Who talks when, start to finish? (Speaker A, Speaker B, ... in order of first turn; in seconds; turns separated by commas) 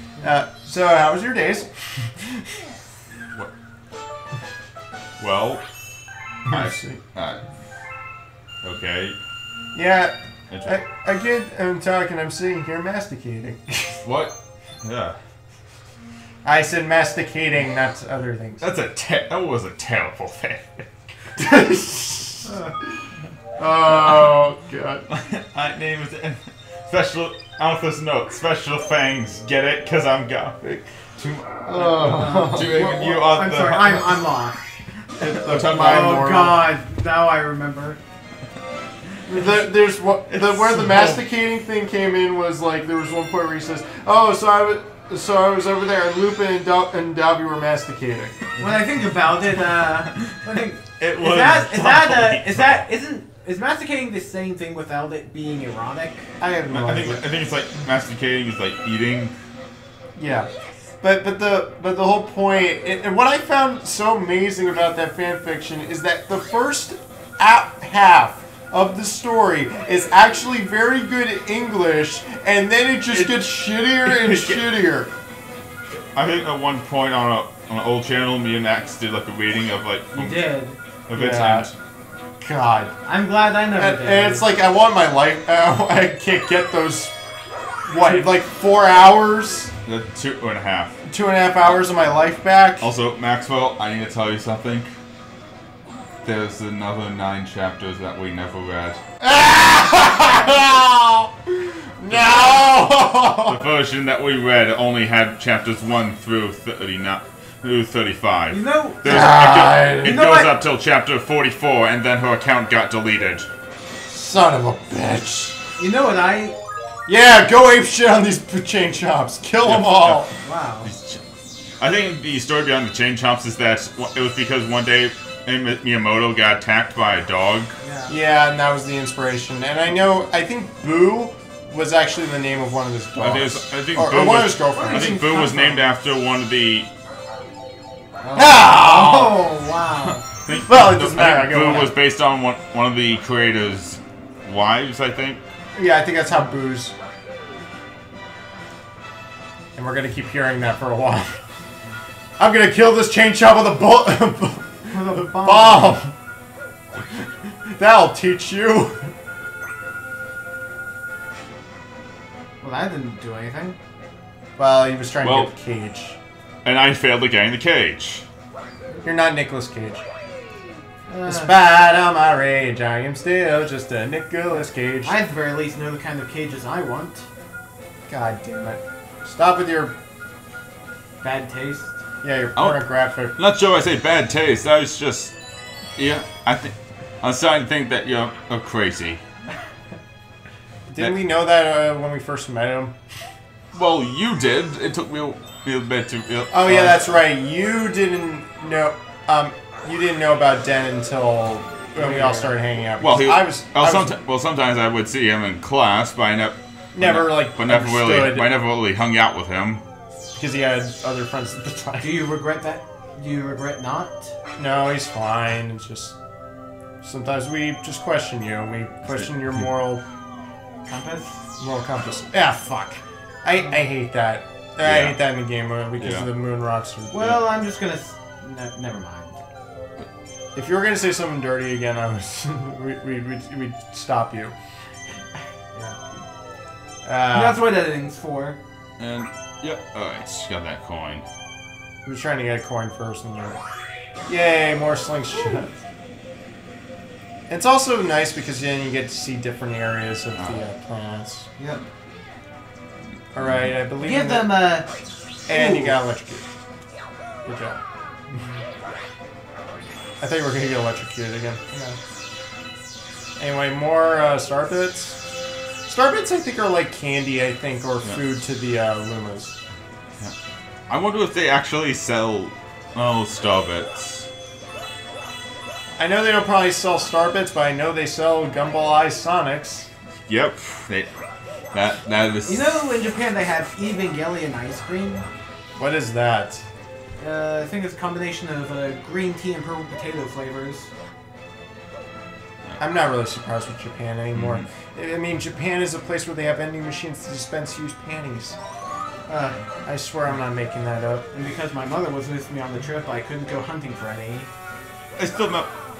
Speaker A: 0.2-2.6, Speaker B: 5.2-5.6, Speaker A: 6.5-7.0, Speaker B: 6.5-7.4, Speaker B: 8.6-9.2, Speaker A: 9.7-14.0, Speaker B: 10.5-10.8, Speaker B: 14.0-15.2, Speaker A: 16.4-18.6, Speaker B: 18.6-20.9, Speaker A: 21.4-22.6, Speaker C: 22.4-22.7, Speaker A: 23.6-25.1, Speaker B: 25.1-34.2, Speaker A: 31.7-32.8, Speaker C: 31.8-34.8, Speaker B: 35.2-36.2, Speaker A: 35.2-36.6, Speaker C: 35.5-38.0, Speaker A: 39.3-48.6, Speaker B: 40.3-41.2, Speaker C: 48.6-56.3, Speaker B: 51.0-52.8, Speaker A: 56.4-57.2, Speaker B: 56.7-59.3, Speaker A: 60.2-60.5, Speaker A: 61.0-75.1, Speaker B: 73.1-73.5, Speaker B: 74.0-74.6, Speaker B: 76.2-80.5, Speaker C: 80.1-80.8, Speaker B: 81.1-81.7, Speaker A: 81.1-81.7, Speaker A: 82.4-82.9, Speaker C: 83.0-84.5, Speaker A: 83.8-87.1, Speaker A: 87.9-89.7, Speaker B: 89.8-91.0, Speaker A: 91.1-92.9, Speaker B: 92.8-94.9, Speaker B: 96.2-99.0, Speaker A: 99.2-103.6, Speaker B: 103.5-113.5, Speaker C: 108.5-109.0, Speaker A: 109.0-110.2, Speaker C: 110.0-110.6, Speaker A: 114.0-115.6, Speaker C: 115.8-116.6, Speaker A: 117.1-120.3, Speaker B: 119.6-120.3, Speaker C: 120.4-120.9, Speaker B: 120.8-121.2, Speaker B: 121.8-127.7, Speaker C: 127.8-128.1, Speaker A: 128.1-135.2, Speaker B: 133.2-136.9, Speaker C: 134.7-135.8, Speaker C: 138.2-140.2, Speaker A: 138.3-139.5, Speaker B: 140.0-145.4, Speaker A: 140.7-141.9, Speaker A: 145.8-146.9, Speaker A: 149.8-151.4, Speaker A: 152.4-156.1, Speaker C: 154.9-156.0, Speaker A: 157.1-159.1, Speaker C: 162.6-163.8, Speaker A: 164.6-166.2, Speaker B: 165.2-165.5, Speaker B: 166.6-168.2, Speaker A: 169.0-170.0, Speaker C: 171.1-171.5, Speaker A: 171.2-175.2, Speaker C: 175.0-177.3, Speaker A: 178.1-180.0, Speaker C: 181.2-182.0, Speaker A: 182.2-183.3, Speaker B: 182.6-185.3, Speaker B: 186.0-189.2, Speaker A: 190.9-193.0, Speaker B: 193.7-197.2, Speaker A: 196.5-204.2, Speaker C: 201.9-202.5, Speaker B: 203.0-209.8, Speaker A: 206.9-208.5, Speaker A: 210.3-212.1, Speaker C: 212.0-214.3, Speaker A: 214.6-216.2, Speaker A: 217.0-220.0, Speaker C: 220.9-221.5, Speaker A: 221.6-227.4, Speaker B: 224.8-225.2, Speaker B: 226.0-226.3, Speaker C: 227.1-229.4, Speaker A: 230.6-234.6, Speaker A: 237.0-237.6, Speaker C: 237.3-238.6, Speaker B: 239.0-241.2, Speaker A: 242.1-243.6, Speaker A: 244.3-245.7, Speaker A: 247.5-251.5, Speaker B: 250.4-250.6, Speaker C: 251.6-251.8, Speaker A: 253.3-254.8, Speaker B: 253.4-253.8, Speaker C: 254.0-254.9, Speaker C: 255.5-256.0, Speaker A: 255.5-256.4, Speaker A: 257.4-257.8, Speaker C: 258.3-258.6, Speaker A: 260.2-261.8, Speaker A: 263.4-265.2, Speaker A: 265.9-269.6, Speaker B: 270.9-274.3, Speaker A: 276.0-279.9, Speaker B: 280.3-281.1, Speaker B: 281.7-282.8, Speaker C: 282.5-285.2, Speaker A: 285.8-286.6, Speaker C: 287.2-290.9, Speaker A: 292.8-298.6, Speaker B: 294.3-294.7, Speaker C: 299.3-299.6, Speaker A: 299.9-301.3, Speaker C: 301.3-304.5, Speaker B: 305.2-305.7